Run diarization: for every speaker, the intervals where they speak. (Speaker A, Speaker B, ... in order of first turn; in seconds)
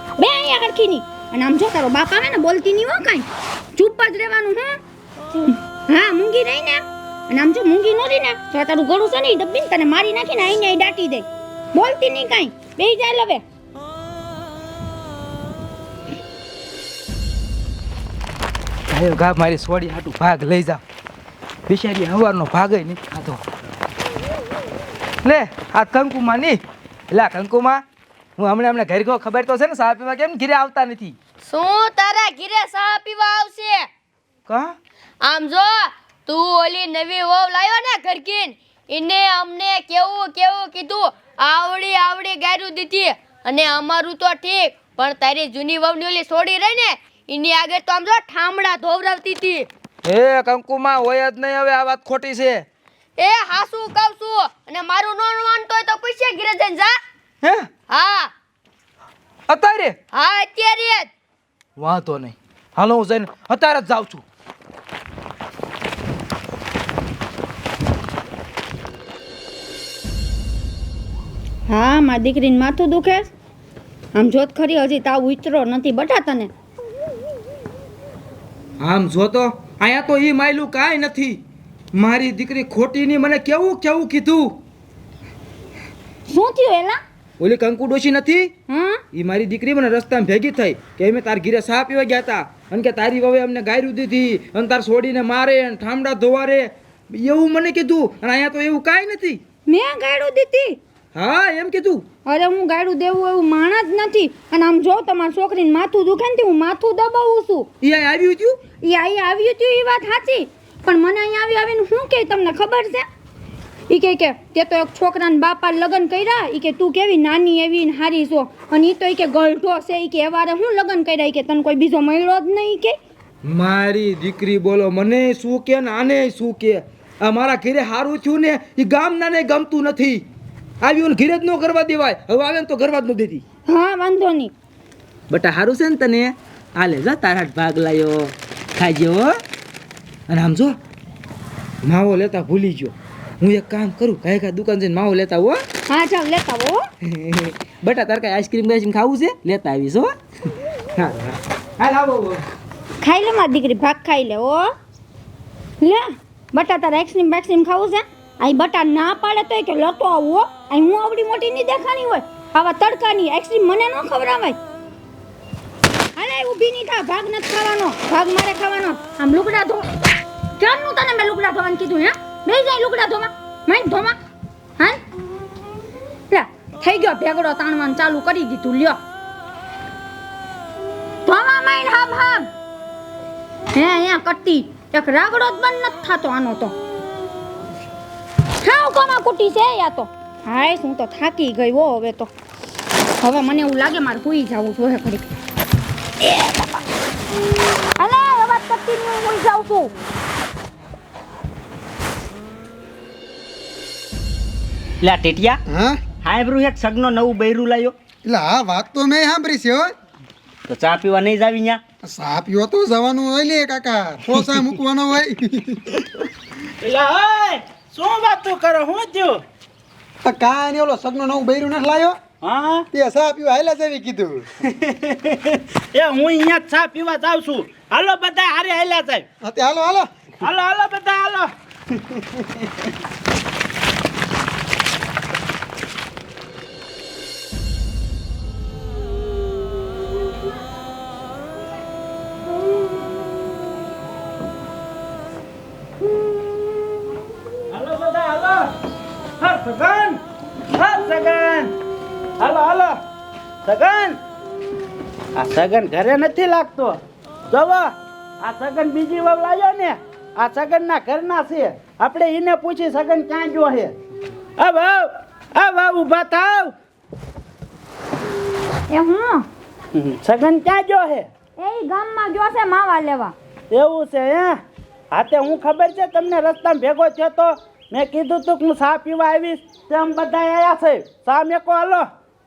Speaker A: 0.2-4.8, 5.4-13.4, 71.7-73.3, 74.1-76.5, 86.3-87.0, 88.7-89.0, 99.7-100.8, 102.2-107.7, 108.8-113.0, 113.9-123.0, 133.7-134.5, 145.9-146.8, 153.0-154.7, 155.8-164.6, 166.2-169.9, 170.6-174.2, 176.3-179.0, 181.2-182.5, 183.7-186.7, 188.6-192.3, 193.2-195.3, 196.2-196.7, 197.9-199.9, 268.9-269.4, 271.6-273.3
Speaker B: 18.9-20.8, 21.7-23.4, 25.2-26.6, 27.1-27.8, 28.4-31.1, 34.5-34.7, 50.0-52.6, 57.4-57.7, 59.5-60.0, 61.8-64.2, 78.8-81.4, 81.9-84.6, 87.4-88.5, 89.1-99.4, 101.1-102.0, 107.8-108.6, 123.4-130.2, 130.8-133.4, 135.3-139.3, 140.3-140.8, 141.8-145.6, 147.0-150.1, 150.9-152.4
Speaker C: 31.4-33.9, 35.2-49.7, 53.2-57.0, 57.9-58.3, 60.1-61.1
Speaker D: 205.0-205.6, 206.2-207.9, 210.7-211.8
Speaker E: 205.7-206.0, 208.2-209.9, 212.0-215.8, 220.2-222.2, 222.9-224.4, 229.4-230.1
Speaker F: 216.8-219.4, 222.4-222.8, 224.6-229.2, 230.4-232.8, 247.7-248.7, 249.4-250.2, 250.7-251.7, 252.4-253.0, 253.6-254.2, 255.3-257.0, 257.5-257.9, 258.4-263.9, 264.6-266.7, 269.9-271.3, 273.7-274.5, 275.1-282.0